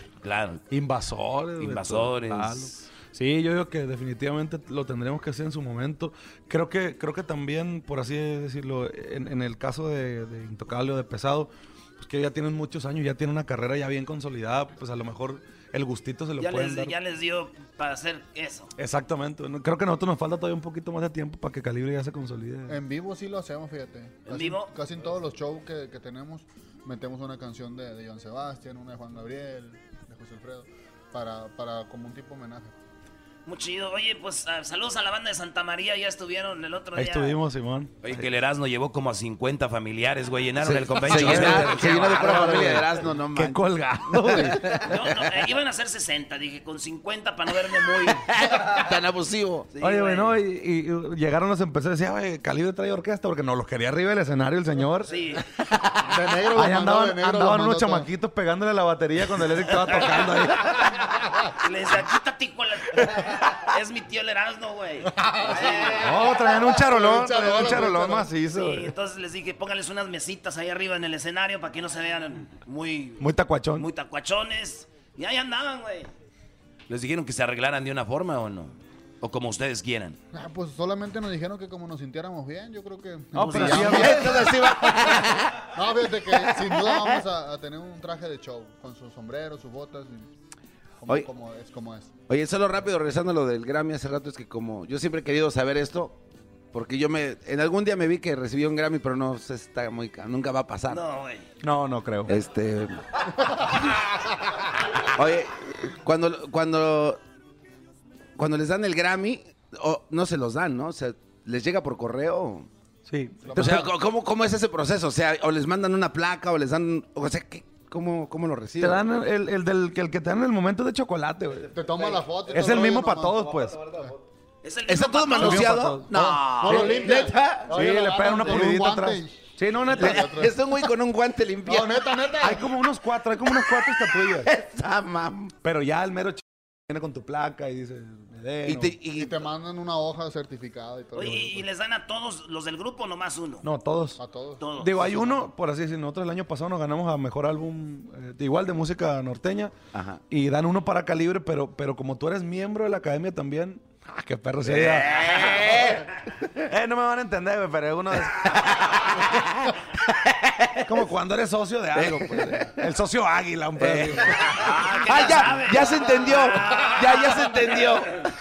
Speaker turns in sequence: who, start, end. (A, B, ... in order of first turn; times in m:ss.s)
0:00.2-0:00.6 A
0:00.7-0:16.9 B
0:01.6-0:02.8 A
0:16.4-0:18.7 C
0:18.8-0:22.8 B
0:22.7-0:32.8 D
0:24.2-0:24.7 C
0:33.4-0:37.4 C
0:37.0-0:38.3 B
0:38.0-0:42.2 A
0:40.6-0:44.7 E
0:41.1-0:44.7 B
0:44.9-0:48.2 C
0:48.1-0:49.7 E
0:49.7-0:50.4 C
0:49.8-0:55.1 B
0:55.0-0:55.4 C
0:56.0-0:58.1 D
0:56.5-1:00.8 B
1:01.6-1:06.0 C
1:05.2-1:05.9 D
1:05.9-1:08.9 B
1:06.8-1:08.4 D
1:08.5-1:13.2 C
1:13.2-1:13.9 B
1:13.8-1:16.1 C
1:16.9-1:20.2 A
1:20.3-1:25.0 D
1:23.3-1:24.5 B
1:23.7-1:25.4 E
1:25.7-1:30.3 D
1:31.0-1:32.1 D
1:32.3-1:36.2 E
1:36.7-1:41.0 E
1:40.9-1:41.5 C
1:41.6-1:42.3 B
1:42.3-1:43.0 E
1:45.1-1:47.2 E
1:48.4-1:52.7 E
1:53.0-1:53.9 B
1:53.4-1:53.8 D
1:53.5-1:59.0 E
1:58.8-2:01.6 B
2:01.6-2:04.1 D
2:02.4-2:03.8 B
2:04.6-2:05.7 C
2:04.9-2:07.8 E
2:05.4-2:07.1 B
2:06.1-2:10.6 D
2:07.7-2:10.3 B
2:09.9-2:12.0 E
2:11.6-2:12.6 D
2:12.4-2:14.5 B
2:14.3-2:15.5 E
2:15.6-2:19.0 B
2:18.6-2:19.4 E
2:19.1-2:21.6 D
2:21.1-2:23.6 C
2:23.6-2:24.2 B
2:24.2-2:24.6 D
2:24.6-2:25.1 C
2:24.8-2:29.7 B
2:30.3-2:35.6 B
2:34.6-2:36.0 E
2:36.6-2:38.5 B
2:40.8-2:44.5 B
2:41.9-2:42.8 E
2:43.8-2:48.2 E
2:44.6-2:47.9 C